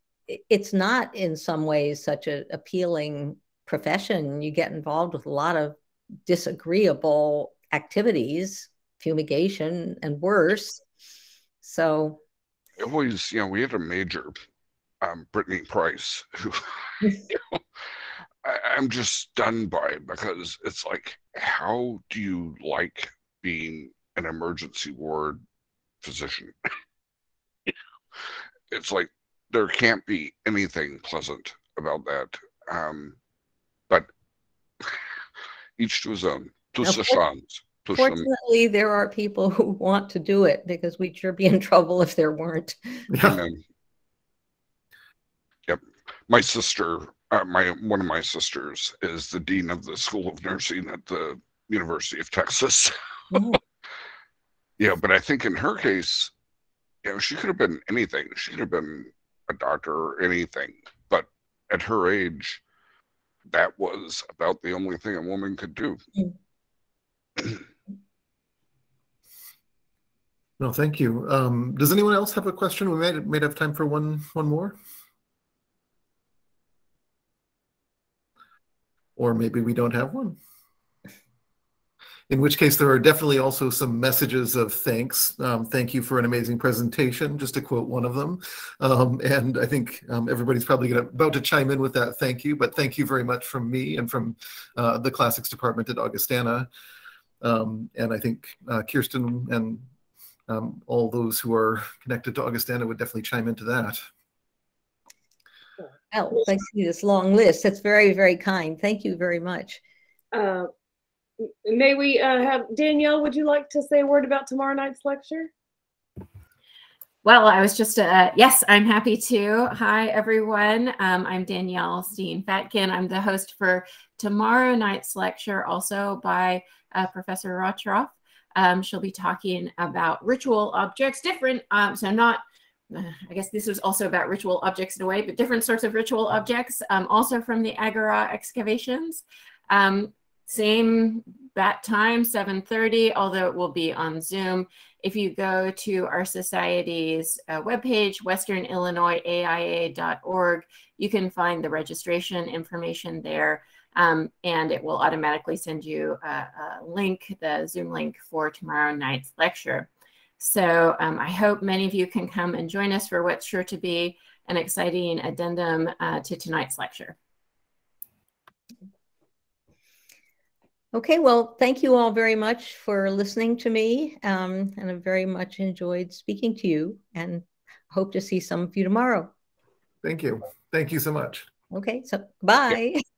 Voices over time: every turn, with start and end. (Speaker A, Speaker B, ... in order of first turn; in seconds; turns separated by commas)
Speaker A: 0.3-10.8, Speaker A: 11.6-12.2, Speaker B: 12.8-14.3, Speaker B: 15.0-17.6, Speaker B: 18.4-25.4, Speaker B: 26.0-26.5, Speaker B: 28.7-33.1, Speaker B: 35.8-38.3, Speaker A: 36.8-37.2, Speaker A: 37.9-43.1, Speaker C: 43.1-43.4, Speaker B: 43.2-43.6, Speaker B: 45.7-53.6, Speaker A: 53.3-53.6, Speaker B: 54.8-56.3, Speaker B: 57.0-62.6, Speaker B: 63.5-66.0, Speaker C: 70.6-74.8, Speaker C: 79.2-80.4, Speaker C: 82.3-96.7, Speaker C: 97.4-99.8, Speaker C: 100.5-104.0, Speaker A: 106.1-109.8, Speaker D: 110.3-110.7, Speaker D: 111.4-115.5, Speaker E: 117.2-167.2, Speaker A: 170.9-179.3, Speaker C: 180.0-181.5, Speaker A: 181.7-183.0